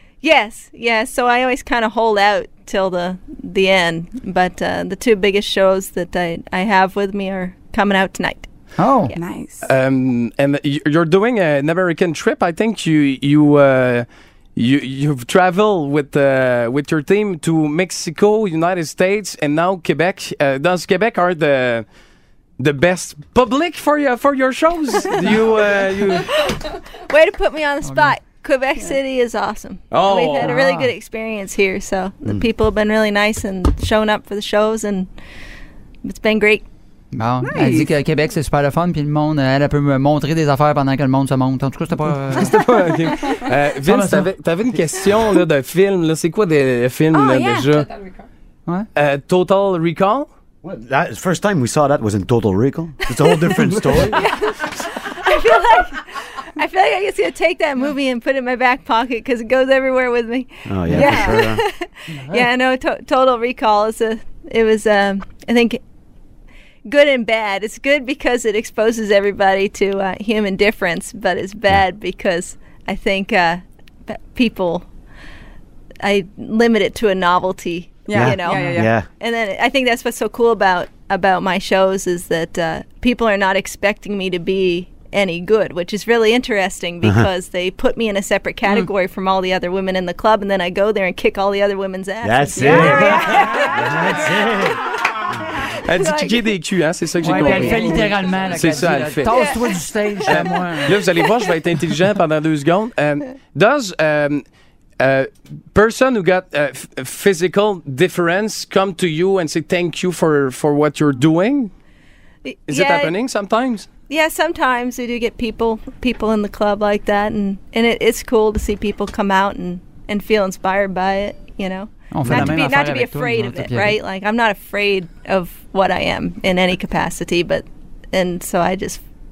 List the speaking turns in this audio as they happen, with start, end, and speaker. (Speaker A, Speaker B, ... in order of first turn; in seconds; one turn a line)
Speaker A: 0.2-8.5
Speaker B: 8.8-9.1
Speaker C: 9.1-9.7
Speaker D: 9.6-21.9
Speaker D: 22.6-26.3
Speaker A: 25.2-25.5
Speaker A: 26.4-35.1
Speaker B: 27.8-28.1
Speaker D: 29.9-30.5
Speaker B: 30.4-30.9
Speaker A: 36.0-36.6
Speaker B: 37.1-42.6
Speaker C: 37.5-37.9
Speaker D: 42.3-47.9
Speaker B: 43.9-44.3
Speaker C: 47.1-47.9
Speaker D: 49.0-50.3
Speaker E: 50.6-54.2
Speaker A: 54.1-65.8
Speaker E: 60.6-61.6
Speaker C: 61.0-61.4
Speaker A: 66.9-74.9
Speaker A: 76.0-96.5
Speaker C: 78.1-78.9
Speaker E: 78.1-79.1
Speaker B: 78.5-78.8
Speaker E: 92.2-94.8
Speaker C: 92.5-93.6
Speaker D: 95.8-99.6
Speaker B: 97.2-101.0
Speaker A: 97.3-97.8
Speaker A: 99.3-99.6
Speaker D: 100.3-104.4
Speaker D: 105.0-111.7
Speaker A: 112.5-113.2
Speaker D: 112.7-113.9
Speaker A: 114.1-129.0
Speaker B: 122.1-124.0
Speaker E: 122.2-122.6